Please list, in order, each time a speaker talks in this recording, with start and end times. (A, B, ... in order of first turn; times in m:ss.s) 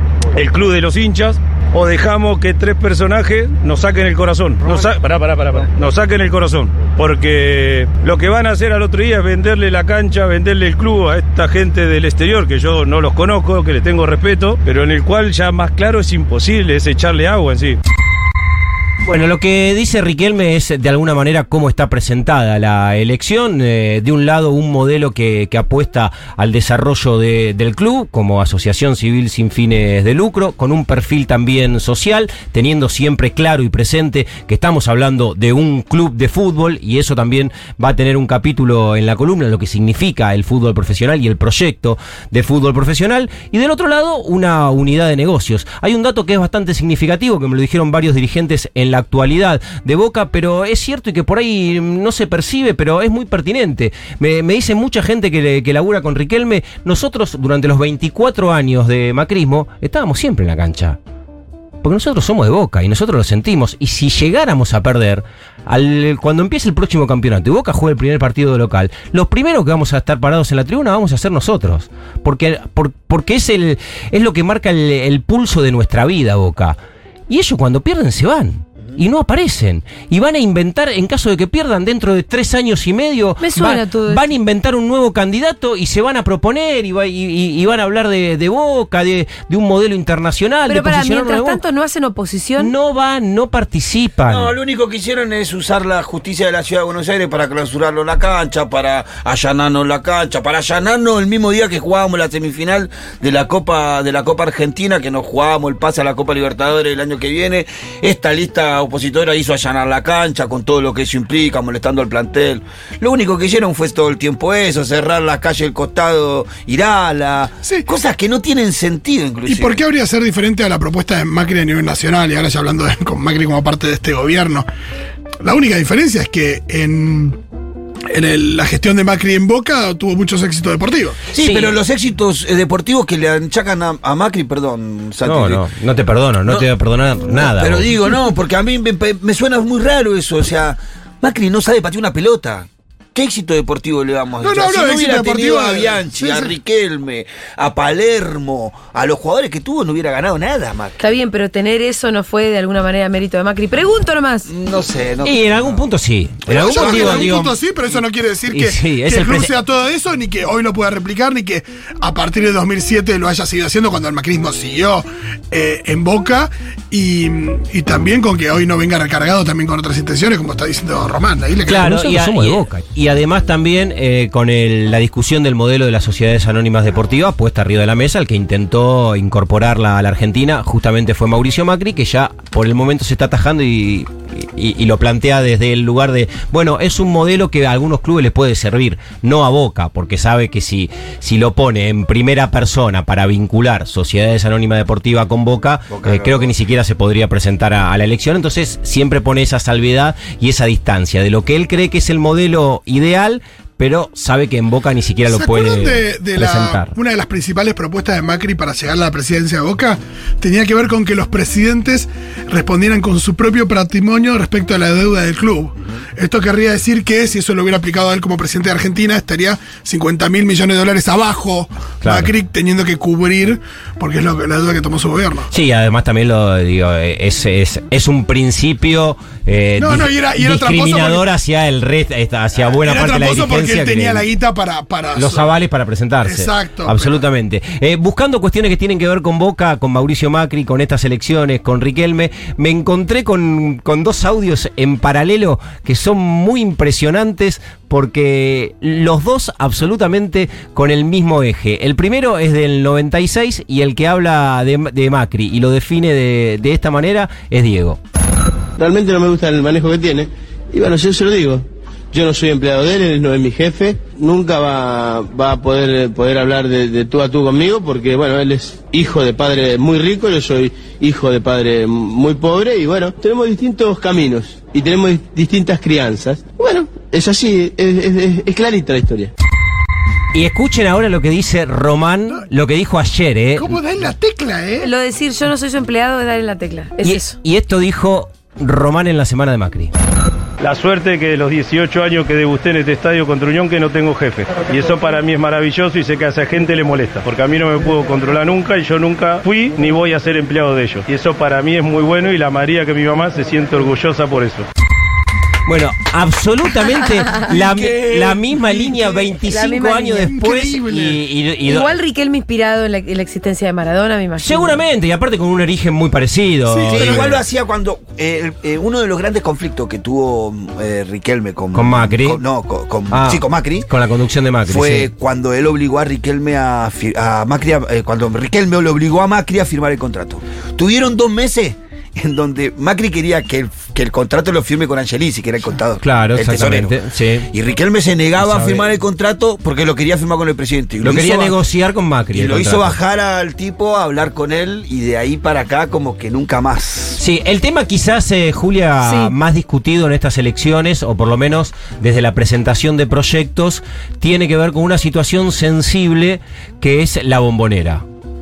0:00.3-0:17.8 A
0:19.0-1:01.0 B
1:01.8-1:16.8 B
1:17.3-1:31.6 B
1:23.4-1:24.2 C
1:30.7-1:32.7 C
1:32.6-1:34.5 B
1:34.2-1:59.8 D
1:59.5-2:04.6 E
2:05.4-2:07.4 E
2:08.1-2:11.2 E
2:11.3-2:15.6 D
2:11.4-2:11.8 B
2:15.2-2:17.8 B
2:17.3-2:31.0 D
2:24.4-2:26.5 E
2:31.0-2:34.5 C
2:34.5-2:35.8 D
2:35.2-2:37.6 B
2:36.4-2:37.4 D
2:36.5-2:52.6 E
2:38.5-2:39.5 B
2:51.6-3:26.9 B
3:15.9-3:16.5 D
3:25.3-3:45.5 E
3:42.0-3:42.3 B
3:45.5-3:54.2 B
3:49.8-3:51.2 E
3:52.8-3:55.5 E
3:55.1-4:18.0 B
3:56.2-3:57.2 E
4:18.8-4:39.3 F
4:40.3-4:43.8 B
4:43.6-4:44.9 E
4:44.8-4:47.4 C
4:47.0-4:49.9 B
4:50.6-5:04.6 A
5:05.6-5:11.9 B
5:07.5-5:08.3 D
5:08.6-5:09.3 E
5:09.4-5:10.3 C
5:10.2-5:11.2 E
5:11.6-5:14.8 C
5:14.4-5:17.4 B
5:16.7-5:17.3 E
5:16.9-5:23.9 D
5:21.7-5:22.4 B
5:23.1-5:25.1 B
5:24.7-5:37.0 D
5:36.0-5:37.5 B
5:37.5-5:41.6 D
5:38.4-5:38.8 B
5:41.0-5:43.0 B
5:42.3-5:47.2 D
5:47.2-5:58.0 B
5:49.0-5:49.3 C